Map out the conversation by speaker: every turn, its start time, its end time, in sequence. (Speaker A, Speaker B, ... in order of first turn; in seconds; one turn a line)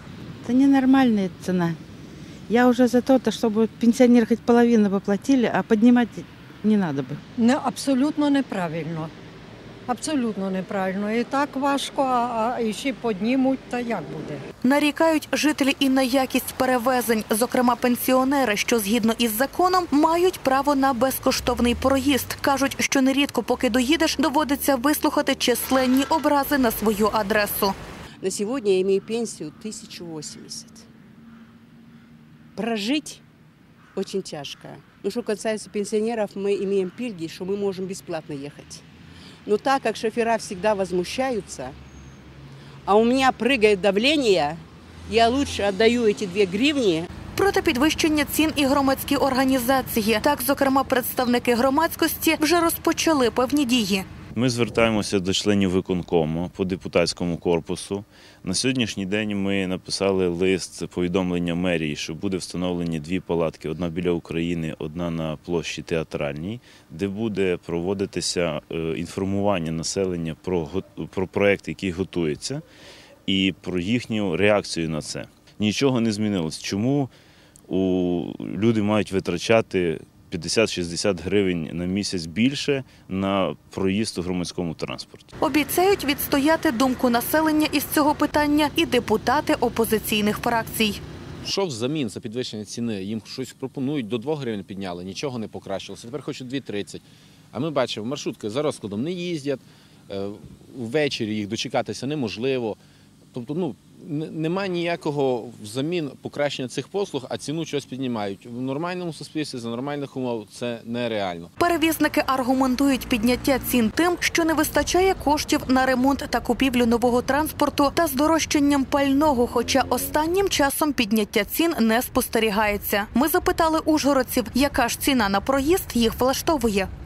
Speaker A: 0.4-1.8
Speaker A: 2.5-7.2
Speaker B: 7.4-9.1
Speaker B: 9.9-14.4
Speaker C: 14.6-27.8
Speaker D: 28.2-30.9
Speaker D: 32.5-33.2
Speaker D: 34.0-38.9
Speaker D: 39.5-41.8
Speaker D: 42.9-47.1
Speaker C: 47.4-54.0
Speaker E: 54.4-72.6
Speaker E: 73.3-77.1
Speaker E: 77.7-85.3
Speaker C: 85.4-91.0
Speaker F: 91.4-102.8
Speaker F: 103.3-111.5
Speaker C: 111.6-126.9